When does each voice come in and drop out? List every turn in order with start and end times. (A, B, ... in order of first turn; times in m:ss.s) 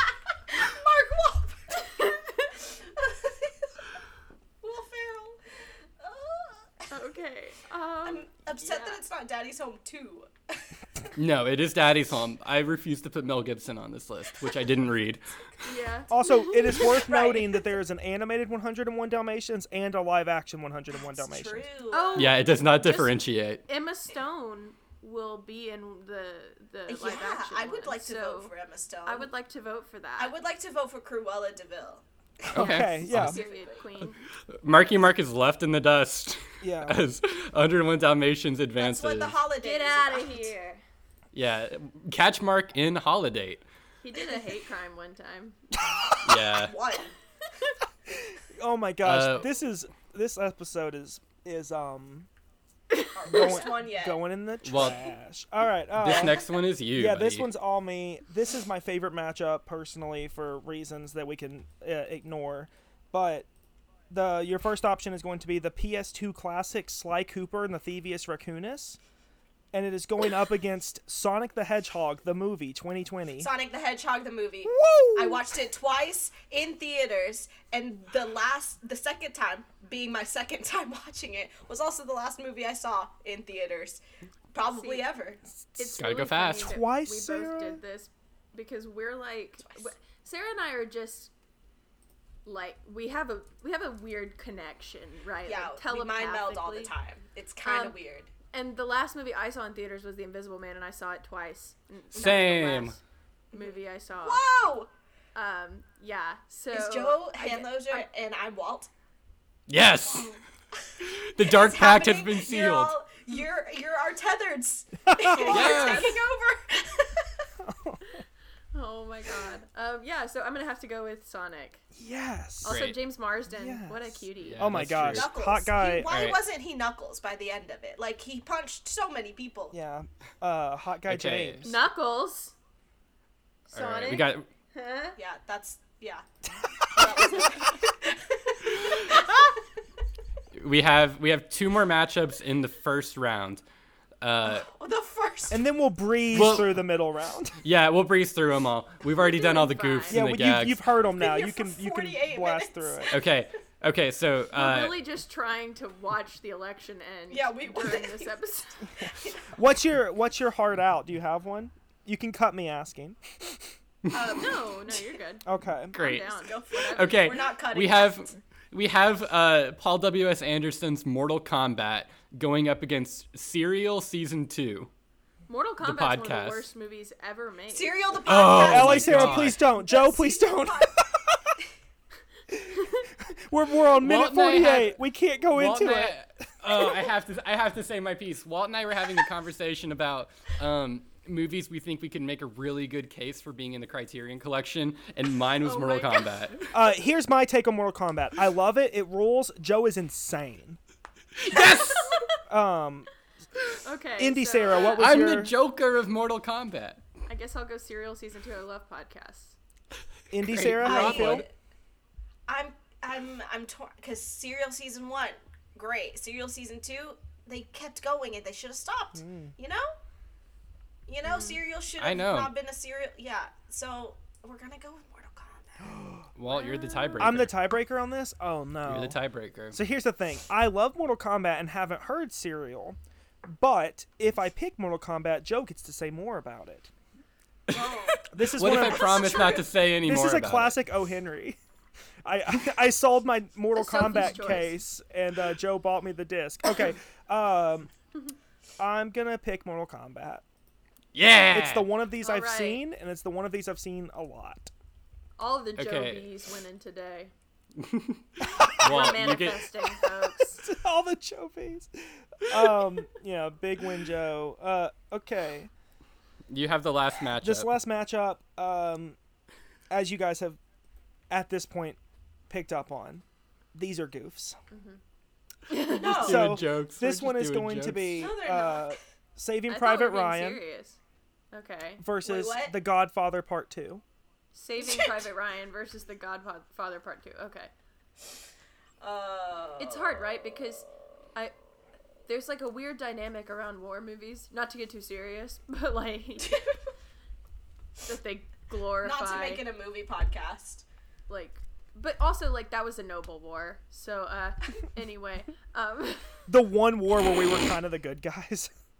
0:00.5-0:03.7 A
0:04.6-0:05.4 A
0:06.0-0:06.9 A
0:06.9-0:09.0 B
0:08.0-0:10.7 A
0:11.2-0:15.2 C
0:15.6-0:17.0 B
0:16.1-0:21.7 D
0:16.6-0:17.7 A
0:21.1-0:22.4 A
0:21.9-0:28.5 B
0:22.1-0:23.6 C
0:26.9-0:29.3 A
0:29.0-0:30.4 B
0:30.2-0:32.0 A
0:32.4-0:33.4 D
0:32.5-0:33.4 C
0:32.6-0:34.2 B
0:33.1-0:33.9 A
0:34.5-0:39.4 C
0:36.6-0:37.0 D
0:38.8-0:40.5 A
0:39.6-0:40.8 B
0:41.3-0:43.6 C
0:44.0-0:45.6 B
0:46.2-0:46.7 C
0:46.5-0:47.1 A
0:48.2-0:52.3 D
0:49.0-0:49.5 C
0:52.9-0:53.6 B
0:53.1-0:54.2 A
0:53.3-0:56.4 D
0:54.6-0:55.0 C
0:56.0-0:57.5 C
0:56.9-1:03.5 D
1:04.1-1:09.0 D
1:09.7-1:13.5 D
1:13.4-1:25.4 A
1:14.6-1:15.4 D
1:24.7-1:25.1 B
1:25.8-1:31.3 B
1:26.0-1:26.7 C
1:26.6-1:27.8 D
1:32.4-1:36.9 B
1:35.4-1:38.3 A
1:37.6-1:38.0 B
1:38.5-1:43.0 B
1:42.1-1:43.0 C
1:43.5-1:44.4 B
1:43.5-1:44.9 A
1:45.3-1:48.1 B
1:46.7-1:48.9 A
1:49.7-1:50.3 C
1:50.1-1:57.5 A
1:51.2-1:53.0 C
1:55.0-1:55.8 D
1:55.4-1:56.2 B
1:55.5-1:56.2 C
1:57.6-1:58.2 D
1:58.7-2:01.8 B
2:01.9-2:02.8 D
2:02.6-2:04.8 B
2:02.6-2:03.0 C
2:03.5-2:06.1 D
2:04.4-2:05.3 C
2:05.1-2:09.8 A
2:06.0-2:06.4 C
2:09.7-2:11.8 D
2:11.0-2:11.6 C
2:11.6-2:12.5 B
2:13.7-2:15.2 B
2:13.7-2:14.4 C
2:15.2-2:16.2 A
2:16.9-2:19.6 A
2:20.5-2:23.6 C
2:24.2-2:24.7 C
2:24.4-2:25.6 A
2:25.5-2:27.6 D
2:26.3-2:26.8 C
2:27.6-2:30.8 C
2:29.2-2:30.2 B
2:30.1-2:33.1 D
2:31.1-2:33.2 A
2:33.1-2:35.0 C
2:34.5-2:38.9 B
2:37.3-2:38.4 A
2:39.0-2:39.5 A
2:39.5-2:43.6 D
2:44.1-2:45.0 A
2:44.2-2:47.3 B
2:45.4-2:45.9 D
2:45.9-2:54.9 C
2:46.4-2:48.3 A
2:55.5-2:58.0 B
2:55.8-2:56.7 C
2:57.7-3:01.0 A
2:58.2-2:59.6 C
2:58.5-3:01.5 D
3:02.5-3:06.2 D
3:04.0-3:16.6 C
3:15.6-3:16.6 B
3:16.7-3:20.8 D
3:21.4-3:22.2 C
3:22.5-3:23.1 D
3:23.8-3:25.2 B
3:24.2-3:25.5 D
3:24.7-3:27.0 C
3:27.3-3:29.6 B
3:30.3-3:31.5 D
3:30.4-3:31.4 C
3:30.8-3:31.5 A
3:32.5-3:39.9 A
3:39.1-3:39.5 D
3:41.1-3:46.0 A
3:41.3-3:41.6 B
3:42.0-3:42.5 C
3:46.3-3:47.6 C
3:46.5-3:47.3 B
3:47.2-3:49.2 D
3:48.8-3:49.8 C
3:49.7-3:56.9 D
3:57.7-4:00.8 C
3:57.7-3:59.6 A
3:58.3-4:01.6 D
4:02.2-4:07.9 D
4:03.7-4:04.8 B
4:08.8-4:10.4 D
4:11.1-4:11.9 C
4:11.5-4:14.7 D
4:12.2-4:12.8 B
4:15.4-4:17.3 B
4:15.8-4:16.3 C
4:17.8-4:19.7 C
4:18.8-4:20.6 B
4:20.5-4:25.7 D
4:26.5-4:27.8 C
4:27.4-4:29.2 D
4:29.9-4:30.6 D
4:31.3-4:32.0 D
4:32.5-4:34.6 D
4:34.7-4:35.0 B
4:35.7-4:36.2 B
4:35.9-4:36.5 A
4:36.0-4:38.3 C
4:36.0-4:40.6 D
4:38.2-4:38.9 A
4:39.7-4:41.0 B
4:41.5-4:42.0 B
4:42.0-4:44.0 D
4:42.2-4:42.7 A
4:44.5-4:47.7 B
4:44.8-4:45.2 A
4:49.0-4:50.1 A
4:49.8-4:51.5 B
4:52.3-4:56.6 B
4:56.4-4:56.7 A
4:58.0-4:59.6 B
4:59.0-5:00.8 A
5:01.3-5:06.4 B
5:06.5-5:08.7 D